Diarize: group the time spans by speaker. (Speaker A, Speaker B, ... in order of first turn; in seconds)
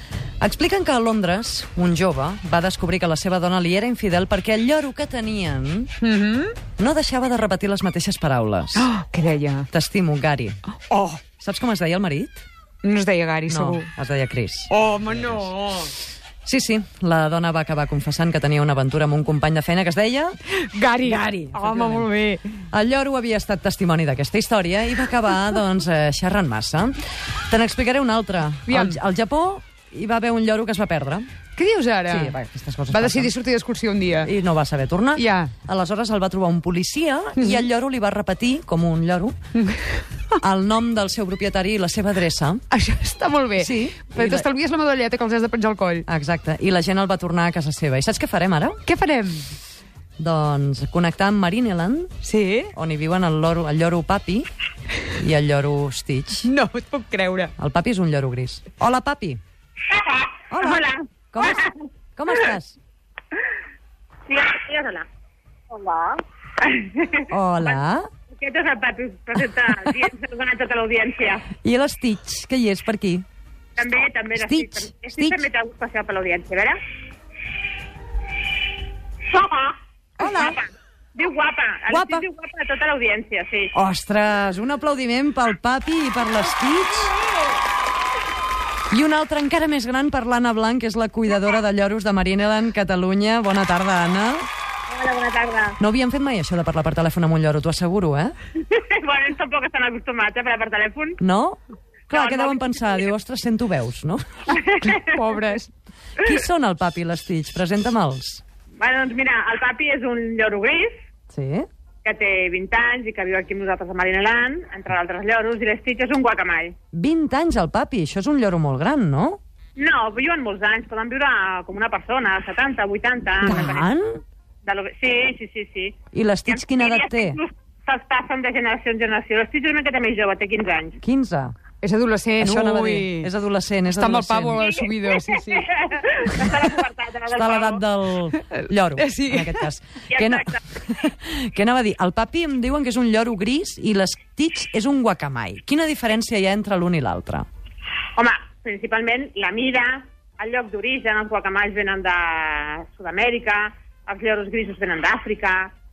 Speaker A: 0.4-5.9, 6.8-8.9, 9.7-10.6, 11.4-12.5, 13.5-14.7, 16.4-20.4, 21.1-22.1, 22.7-31.3, 32.1-33.3, 34.2-39.4, 40.4-42.6, 43.6-44.5, 46.1-48.8, 50.2-52.1, 52.7-54.5, 55.1-56.5, 57.6-59.4, 60.5-62.8, 67.3-68.1, 71.6-73.2, 74.3-75.4, 80.2-80.6, 81.9-82.2, 83.7-87.1, 88.9-94.5, 95.8-98.3, 101.2-101.6, 102.1-104.2, 106.2-108.4, 111.3-111.7, 116.9-119.4, 123.4-124.2, 126.1-127.4, 131.0-131.6, 132.4-134.7, 137.3-147.5
Speaker B: 6.0-6.6, 8.8-9.7, 10.9-11.2, 12.8-13.9, 14.7-15.9, 20.5-22.6, 28.7-29.0, 31.6-32.4, 32.9-34.3, 35.2-35.5, 37.4-37.6, 42.7-46.1, 48.9-49.5, 52.2-52.7, 56.5-57.5, 104.8-105.7, 131.8-133.3, 133.9-135.7, 139.0-139.6
Speaker C: 59.9-61.8, 64.3-65.1, 65.7-71.5, 73.8-76.8, 79.3-83.7, 94.9-95.8, 98.6-101.2, 102.1-103.1, 104.5-105.2, 108.8-111.0, 112.0-116.8, 119.8-123.9, 124.6-131.0, 134.6-137.8, 140.1-140.6, 148.2-155.7